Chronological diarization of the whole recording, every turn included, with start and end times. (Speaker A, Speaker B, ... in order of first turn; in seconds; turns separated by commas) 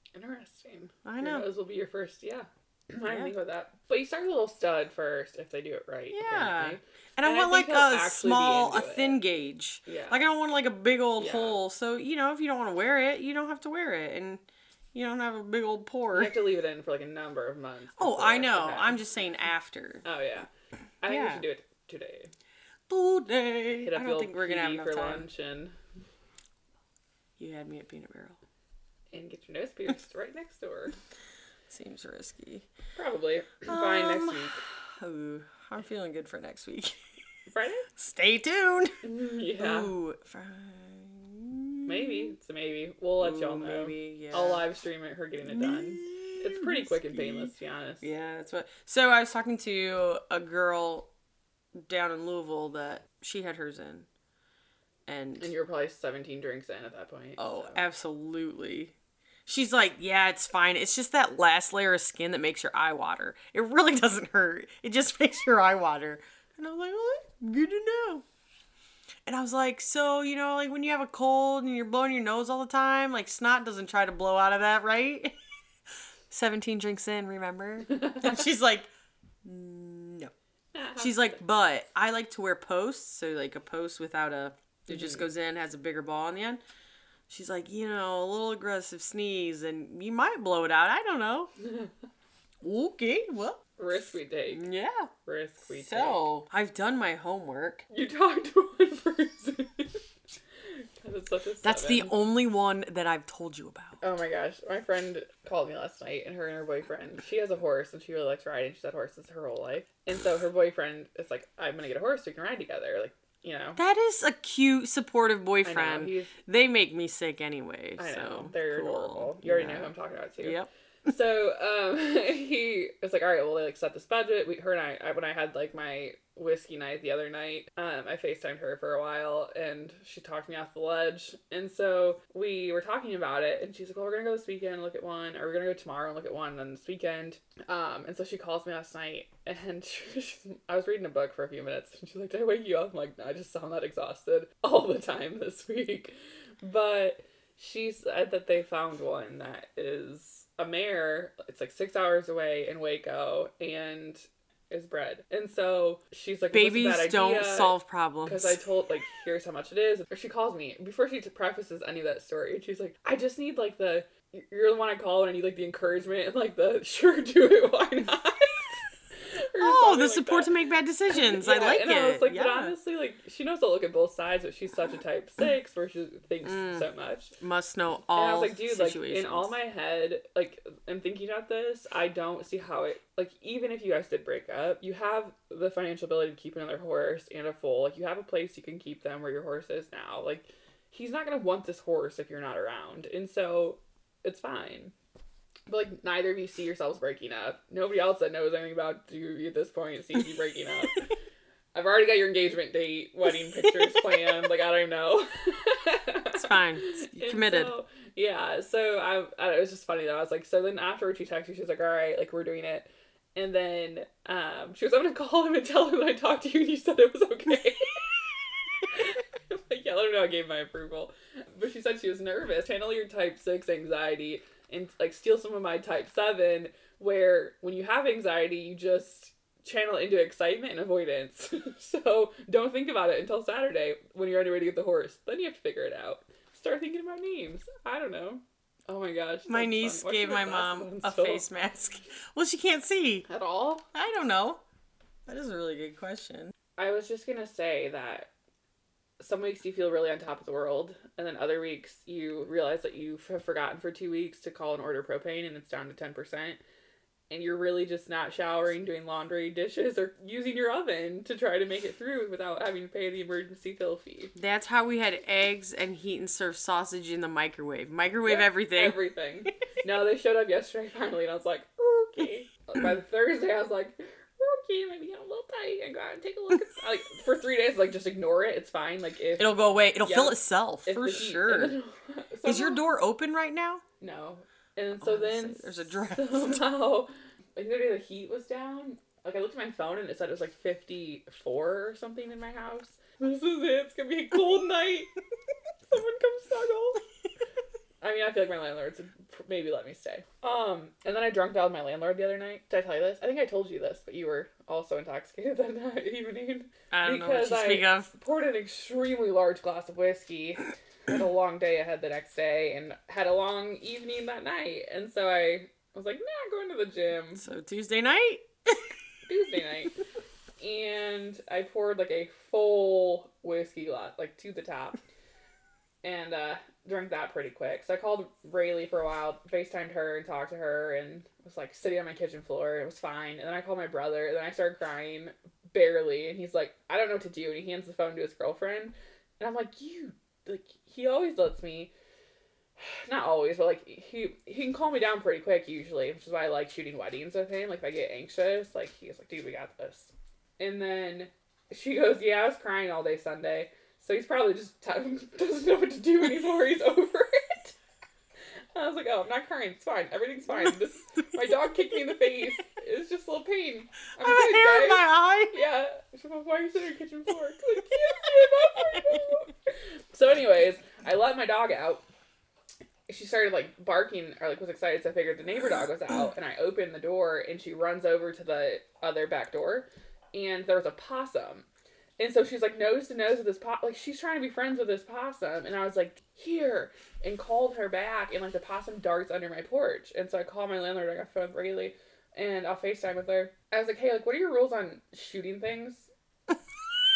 Speaker A: 0.1-9.2, Speaker B: 1.1-1.5, Speaker B: 3.1-3.3, Speaker B: 6.1-14.4, Speaker A: 9.9-10.2, Speaker A: 11.2-11.6, Speaker B: 14.9-16.4, Speaker A: 16.1-19.0, Speaker B: 18.0-20.1, Speaker A: 20.0-20.5, Speaker A: 21.0-22.3, Speaker B: 21.1-21.4, Speaker B: 22.9-25.3, Speaker A: 23.8-25.7, Speaker B: 27.4-28.4, Speaker A: 29.1-31.0, Speaker B: 31.7-32.7, Speaker A: 33.0-34.6, Speaker B: 33.7-37.0, Speaker A: 37.5-37.9, Speaker B: 38.0-39.0, Speaker A: 39.0-39.9, Speaker B: 39.6-42.3, Speaker A: 41.9-48.1, Speaker B: 43.2-44.6, Speaker B: 45.5-47.5, Speaker B: 48.0-51.1, Speaker B: 51.8-54.1, Speaker B: 55.1-55.5, Speaker A: 55.4-57.8, Speaker B: 57.4-58.9, Speaker B: 59.5-68.2, Speaker B: 69.3-75.4, Speaker B: 76.3-78.9, Speaker A: 78.0-78.2, Speaker B: 79.4-80.3, Speaker A: 80.7-81.4, Speaker B: 81.0-86.6, Speaker A: 84.9-85.2, Speaker B: 87.3-91.5, Speaker B: 92.6-93.6, Speaker A: 93.8-94.7, Speaker B: 94.5-95.1, Speaker A: 95.2-96.2, Speaker B: 95.8-97.8, Speaker A: 97.9-100.0, Speaker A: 100.8-102.1, Speaker B: 101.6-104.0, Speaker A: 104.0-113.8, Speaker B: 113.8-120.7, Speaker A: 115.7-116.3, Speaker A: 118.0-170.5, Speaker B: 156.5-158.6, Speaker B: 169.6-172.8, Speaker A: 171.1-177.3, Speaker B: 176.5-176.8, Speaker B: 177.4-179.5, Speaker A: 178.1-194.9, Speaker A: 195.7-201.1, Speaker A: 201.7-218.2, Speaker B: 203.6-204.0, Speaker B: 206.3-207.7, Speaker A: 218.9-241.5, Speaker B: 239.5-243.3, Speaker A: 243.3-243.8, Speaker B: 243.9-244.6, Speaker B: 245.3-246.5, Speaker A: 246.8-248.3, Speaker A: 249.2-256.6, Speaker A: 257.3-264.4, Speaker B: 264.4-269.0, Speaker A: 268.2-282.8, Speaker B: 279.4-281.8, Speaker B: 282.4-283.8, Speaker A: 284.0-295.1, Speaker B: 285.0-286.6, Speaker A: 295.9-297.0, Speaker A: 298.0-317.4, Speaker B: 306.9-308.1, Speaker B: 317.4-318.9, Speaker A: 319.3-319.9, Speaker A: 320.6-325.0, Speaker A: 326.0-341.9, Speaker A: 342.8-357.8, Speaker A: 358.8-369.5, Speaker B: 364.2-365.6, Speaker A: 370.1-372.0, Speaker A: 373.1-381.7, Speaker A: 382.2-396.1